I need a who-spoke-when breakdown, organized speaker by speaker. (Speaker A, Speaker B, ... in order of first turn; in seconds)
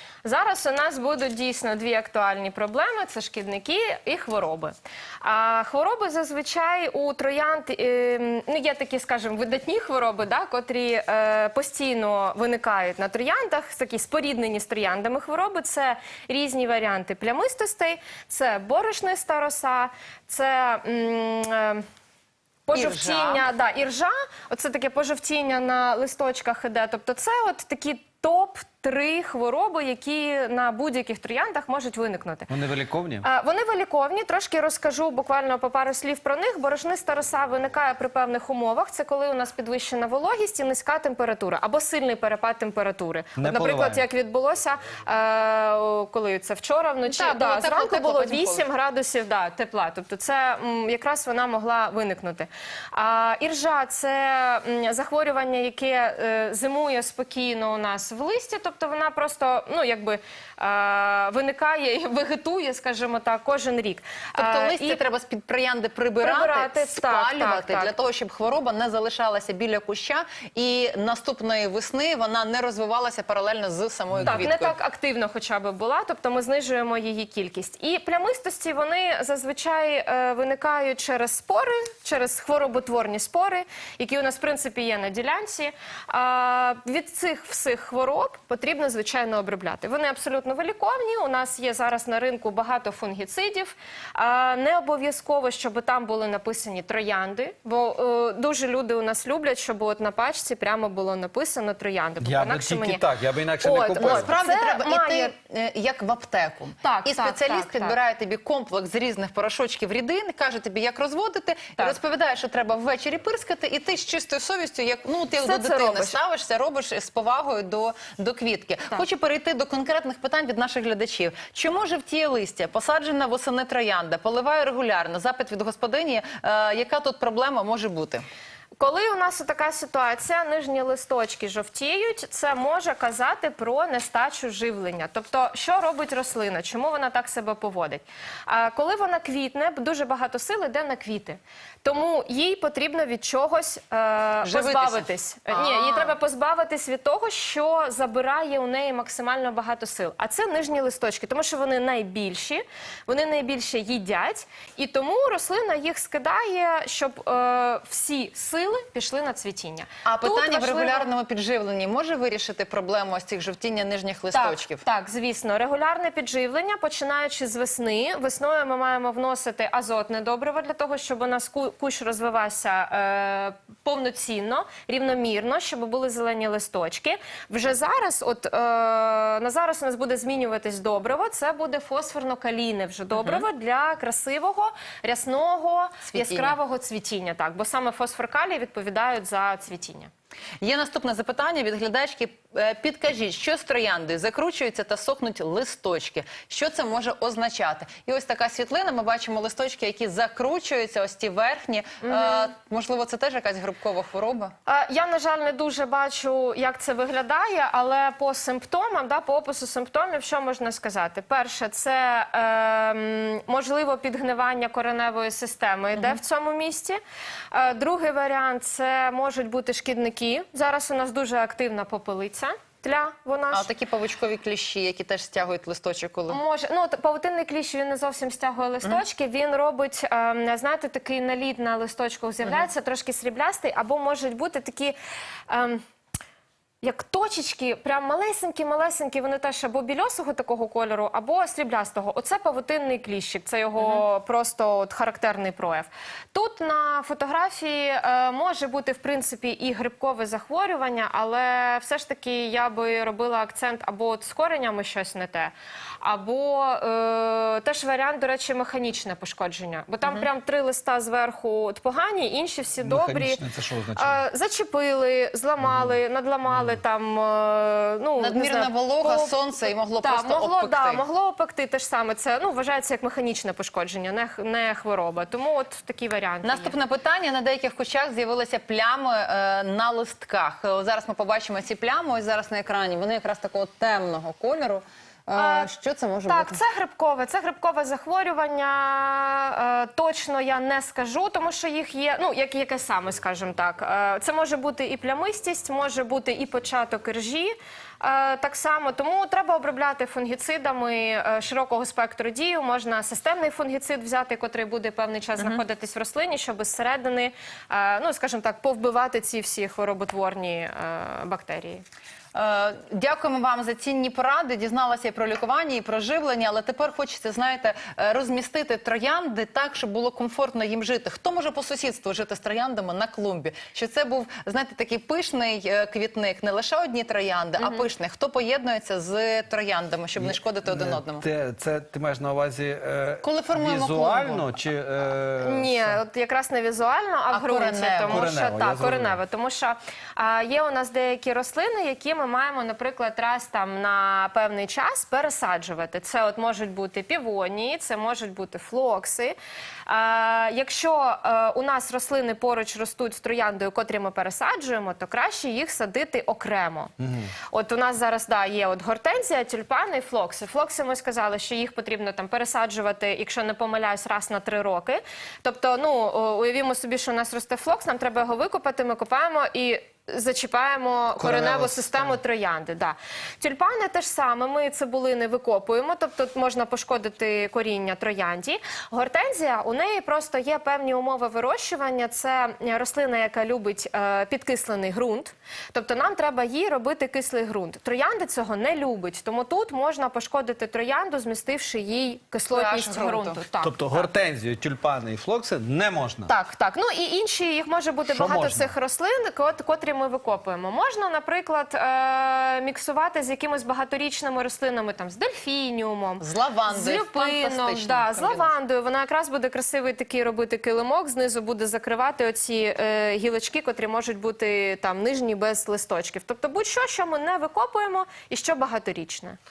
Speaker A: 0.2-21.8, 22.7-32.5, 33.2-65.0, 66.2-67.9, 74.2-103.1, 103.6-105.3, 106.8-108.0, 115.4-116.2, 128.8-161.1, 164.3-190.1, 202.0-202.5, 204.7-217.0, 217.5-223.7, 226.3-235.0, 235.5-235.8, 236.8-263.4, 264.0-276.8, 285.4-285.7, 286.3-311.8, 327.6-327.9, 335.4-349.4, 349.9-356.9, 357.5-394.1, 396.3-419.4
Speaker B: 22.7-23.5, 47.1-48.7, 64.4-74.8, 104.0-128.2, 144.4-146.2, 160.1-164.8, 183.2-183.4, 186.1-186.6, 190.6-204.5, 223.5-226.4, 243.8-244.0, 268.2-271.0, 276.4-286.6, 312.3-331.2, 333.2-334.5, 337.3-338.3, 392.5-393.4, 406.2-408.5
Speaker C: 32.5-33.3, 43.4-44.0, 74.1-74.4, 102.2-104.3, 262.8-264.2, 265.6-265.9, 330.2-336.0, 338.1-339.2, 357.0-357.3, 371.2-372.2, 393.6-396.4, 398.1-398.7